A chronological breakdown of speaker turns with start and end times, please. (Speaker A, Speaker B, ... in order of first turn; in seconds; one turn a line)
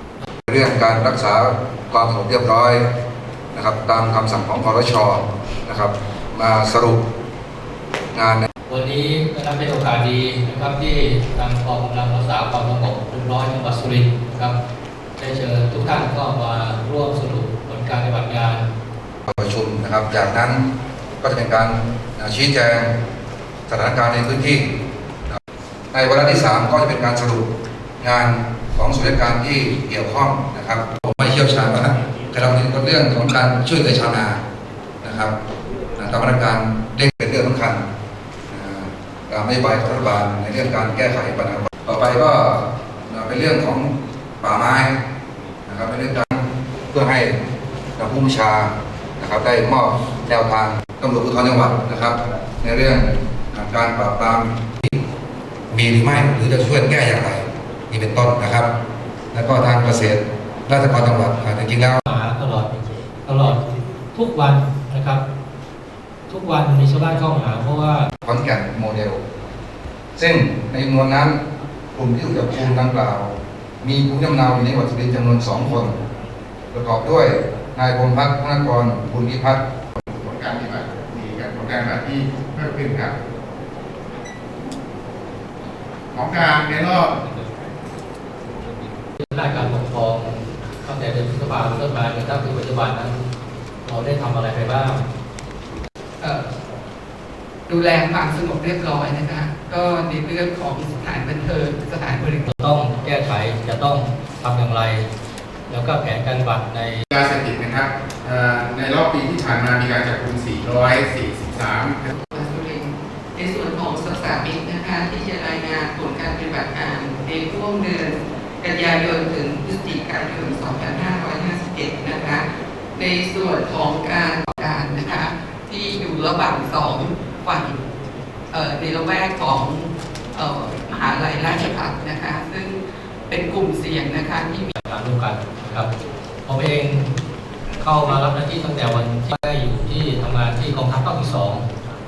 Speaker A: 0.5-2.9
Speaker A: 3.5-7.0
Speaker A: 8.2-8.5
Speaker B: 8.7-14.6
Speaker B: 15.2-18.7
Speaker A: 19.3-20.7
Speaker A: 21.2-22.9
Speaker A: 23.7-24.8
Speaker A: 25.9-27.5
Speaker A: 28.0-34.4
Speaker A: 35.0-35.4
Speaker A: 36.0-37.9
Speaker A: 38.5-45.0
Speaker A: 45.7-47.4
Speaker A: 48.0-55.0
Speaker A: 55.7-58.7
Speaker A: 59.3-62.0
Speaker B: 62.1-62.7
Speaker B: 63.2-63.6
Speaker B: 64.1-65.2
Speaker B: 66.3-68.1
Speaker A: 68.2-69.2
Speaker A: 70.2-71.4
Speaker A: 71.9-75.9
Speaker A: 76.7-79.6
Speaker C: 80.0-83.2
Speaker C: 86.1-87.1
Speaker B: 89.2-93.3
Speaker B: 93.8-95.0
Speaker D: 96.2-96.5
Speaker D: 97.7-102.5
Speaker B: 102.5-105.1
Speaker B: 105.7-107.0
Speaker C: 107.1-112.1
Speaker D: 112.1-122.4
Speaker D: 122.9-127.8
Speaker D: 128.5-132.8
Speaker D: 133.3-134.7
Speaker B: 134.8-135.9
Speaker B: 136.4-137.1
Speaker B: 137.8-141.7